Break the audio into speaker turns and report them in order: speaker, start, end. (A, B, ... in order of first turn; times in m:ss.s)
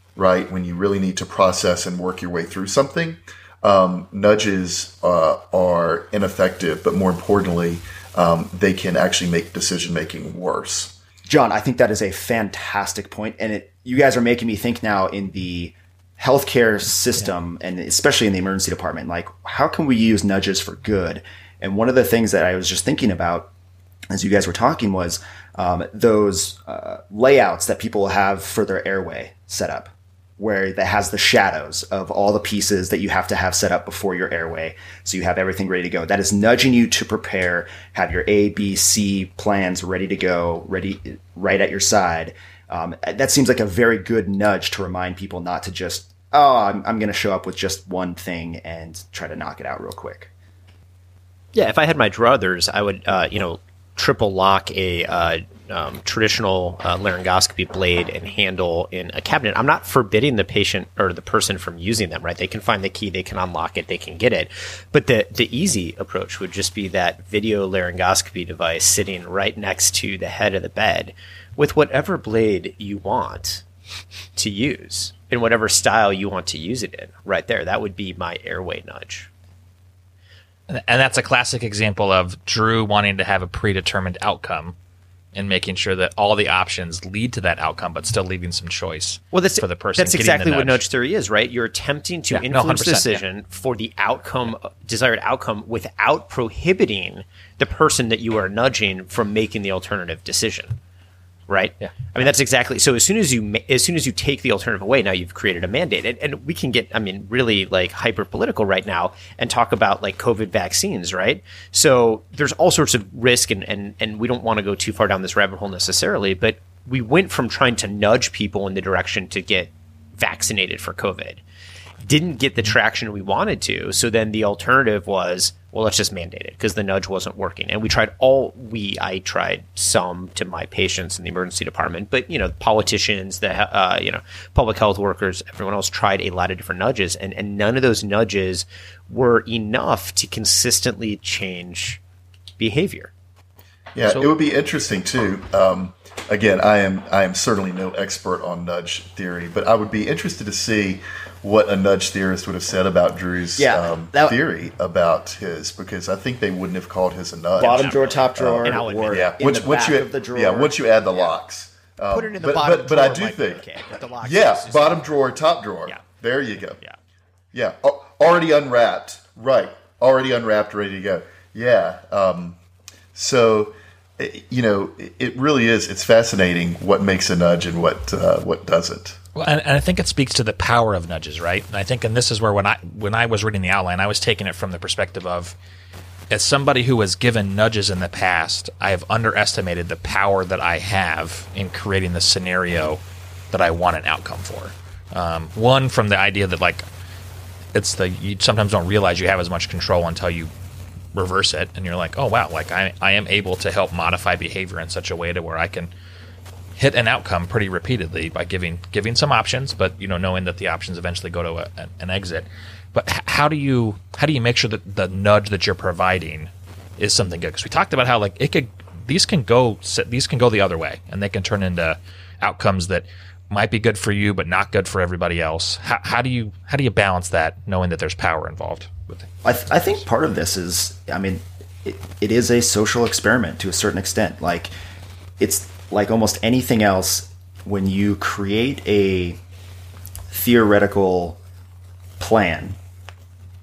0:00.2-0:10.9 A
0:11.2-0:23.5 B
0:24.1-0:50.3 B
0:51.5-1:13.6 C
1:14.4-1:19.3 C
1:20.7-1:24.8 D
1:25.3-1:30.8 D
1:29.3-1:40.8 C
1:32.3-1:33.2 D
1:41.5-2:01.4 C
2:02.0-2:22.0 C
2:22.6-2:23.1 C
2:23.9-2:43.7 A
2:33.6-2:34.4 B
2:37.6-2:39.4 C
2:37.6-2:40.8 B
2:42.1-2:45.1 C
2:44.2-2:46.8 A
2:47.5-2:52.6 A
2:53.1-2:59.2 A
2:59.4-3:05.5 D
3:06.3-3:16.8 D
3:17.7-3:20.5 D
3:21.1-3:25.9 D
3:26.8-3:49.3 D
3:49.4-3:54.7 B
3:55.4-3:59.4 B
4:00.3-4:01.4 B
4:02.2-4:02.8 B